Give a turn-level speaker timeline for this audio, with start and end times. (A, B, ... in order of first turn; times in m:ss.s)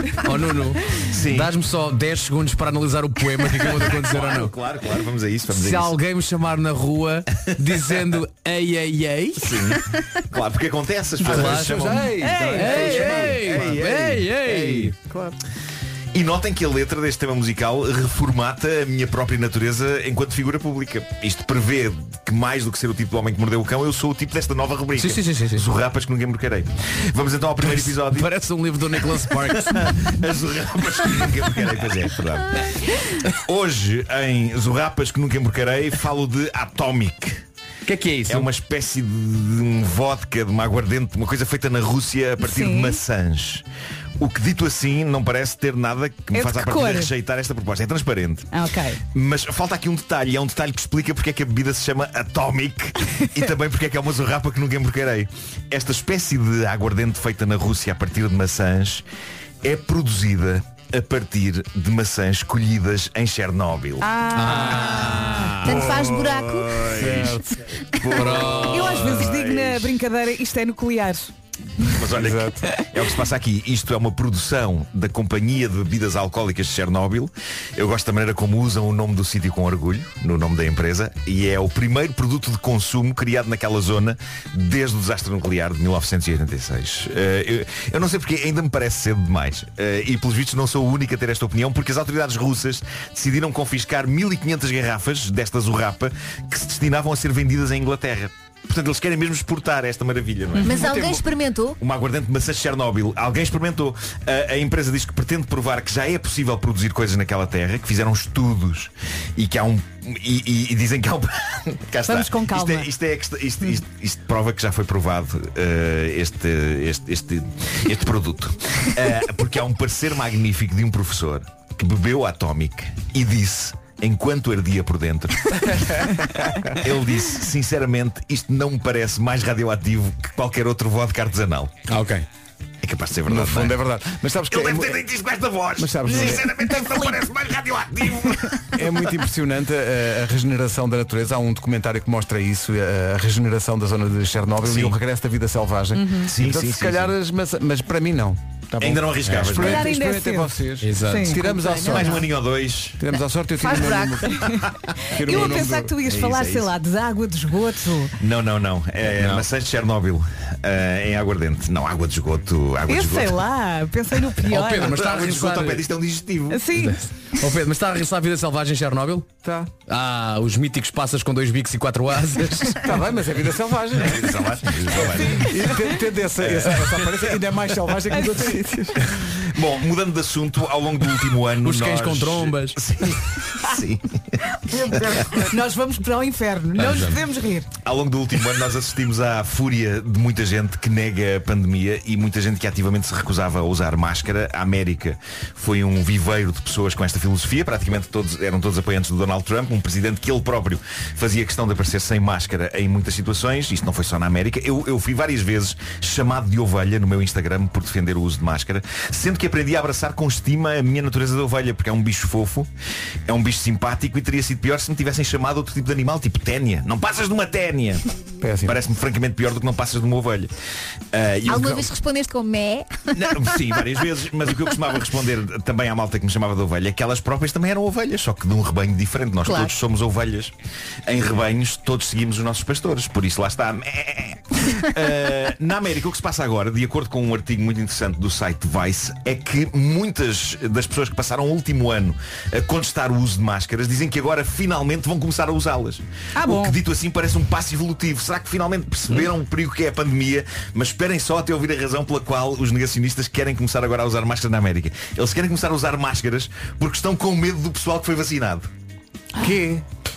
0:00.2-0:04.5 A
0:01.1-0:01.5 B
0:03.7-0:05.9 B
0:05.5-0:09.8 A
0:09.4-0:14.9 B
0:11.2-0:14.9 A
0:11.2-0:15.4 C
0:16.1-0:28.3 B
0:25.0-0:25.6 A
0:27.6-0:30.1 A
0:29.7-0:32.8 B
0:33.3-0:37.4 B
0:37.8-0:38.5 A
0:38.3-0:43.6 B
0:42.4-0:43.0 D
0:44.2-0:48.5 B
0:46.3-0:47.1 D
0:48.5-0:49.0 D
0:49.1-0:59.0 B
0:59.6-1:04.0 B
1:04.0-1:05.5 D
1:04.3-1:05.8 A
1:05.6-1:06.9 E
1:05.6-1:07.3 B
1:06.9-1:07.6 C
1:08.0-1:09.9 B
1:08.1-1:09.3 A
1:08.6-1:11.3 D
1:11.9-1:41.2 B
1:12.1-1:12.7 C
1:40.6-1:40.8 D
1:40.6-1:41.8 E
1:41.8-2:05.6 B
1:52.0-1:52.9 D
2:06.3-2:06.7 C
2:06.8-2:11.8 B
2:11.9-2:12.2 A
2:12.8-2:13.8 B
2:13.2-2:15.0 C
2:14.5-2:18.8 B
2:15.8-2:16.5 C
2:18.7-2:32.3 C
2:24.6-2:24.9 B
2:25.9-2:26.3 D
2:26.2-2:27.1 B
2:28.8-2:29.9 B
2:29.6-2:31.9 D
2:30.8-2:31.4 A
2:31.7-2:33.0 B
2:33.0-2:34.5 C
2:33.6-2:34.3 E
2:34.3-2:34.6 D
2:35.1-2:35.9 C
2:35.2-2:38.1 D
2:35.3-2:36.7 B
2:38.2-2:43.4 B
2:42.9-2:45.0 D
2:44.4-2:45.8 A
2:44.7-2:46.6 B
2:46.5-2:47.0 D
2:46.7-2:49.3 A
2:49.4-2:49.7 C
2:49.9-2:52.9 A
2:52.8-2:54.3 C
2:54.0-2:55.8 B
2:55.3-2:59.1 C
2:56.4-2:56.7 B
2:58.1-2:58.6 D
2:59.0-3:04.4 B
3:01.6-3:02.8 A
3:04.9-3:05.4 B
3:05.3-3:07.7 D
3:06.8-3:07.2 A
3:07.8-3:32.7 B
3:33.3-3:38.0 B
3:38.4-3:38.8 C
3:38.6-3:40.5 B
3:41.1-3:41.9 B
3:41.4-3:43.6 E
3:43.1-3:50.5 B
3:49.4-3:49.8 E
3:51.0-4:18.7 B
4:06.3-4:06.8 D
4:19.4-4:19.8 C